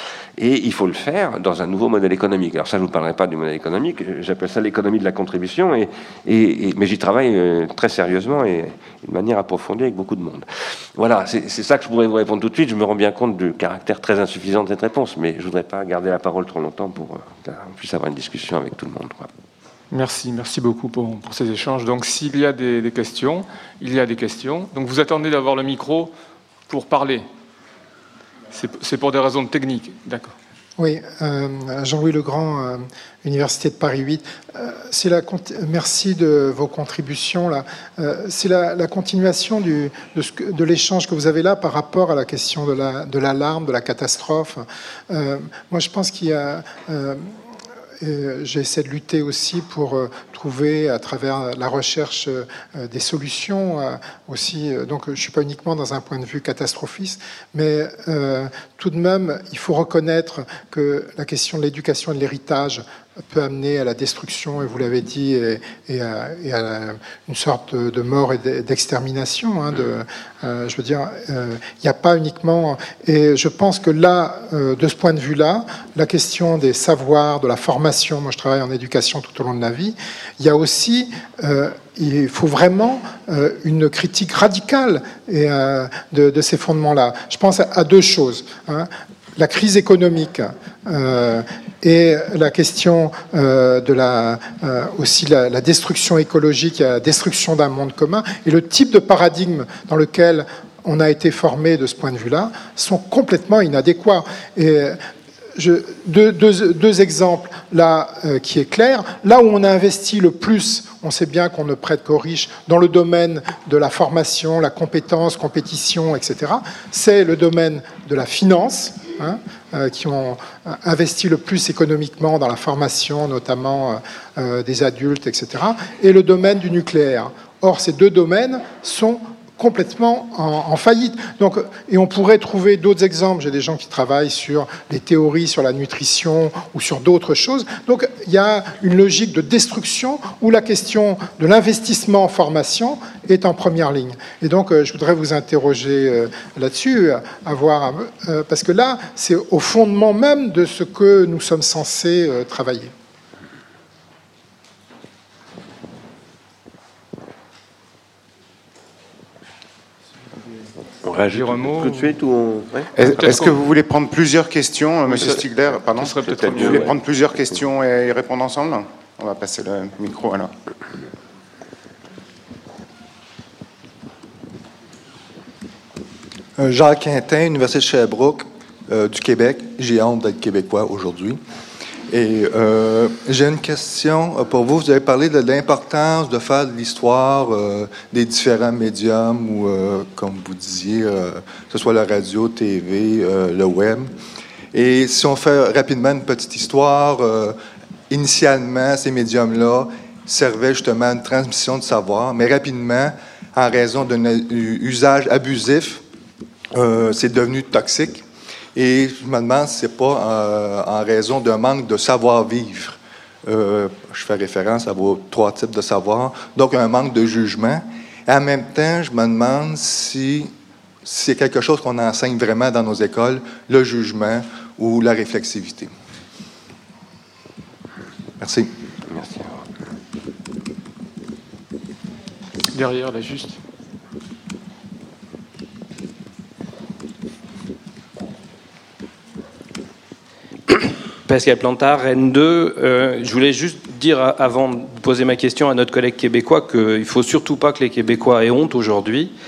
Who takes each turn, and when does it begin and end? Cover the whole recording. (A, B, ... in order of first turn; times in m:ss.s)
0:00.4-0:19.3 A
0:19.9-0:26.1 B
0:26.7-0:27.3 B
0:28.5-0:30.3 B
0:30.8-0:47.3 C
0:48.0-1:45.0 C
1:45.6-2:32.9 C
2:41.0-2:43.5 A
2:41.3-2:42.1 B
2:43.0-2:50.5 D
2:43.2-2:43.6 B
2:45.1-2:47.0 B
2:46.5-2:46.8 A
2:56.6-3:01.4 E
3:02.1-3:14.1 E
3:14.7-3:17.6 E
3:18.1-3:26.0 E
3:26.7-3:28.2 E
3:28.8-3:40.5 E
3:41.0-3:45.9 E
3:48.4-3:48.7 E
3:49.1-3:49.6 A
3:52.7-3:53.6 B
4:00.7-4:09.3 F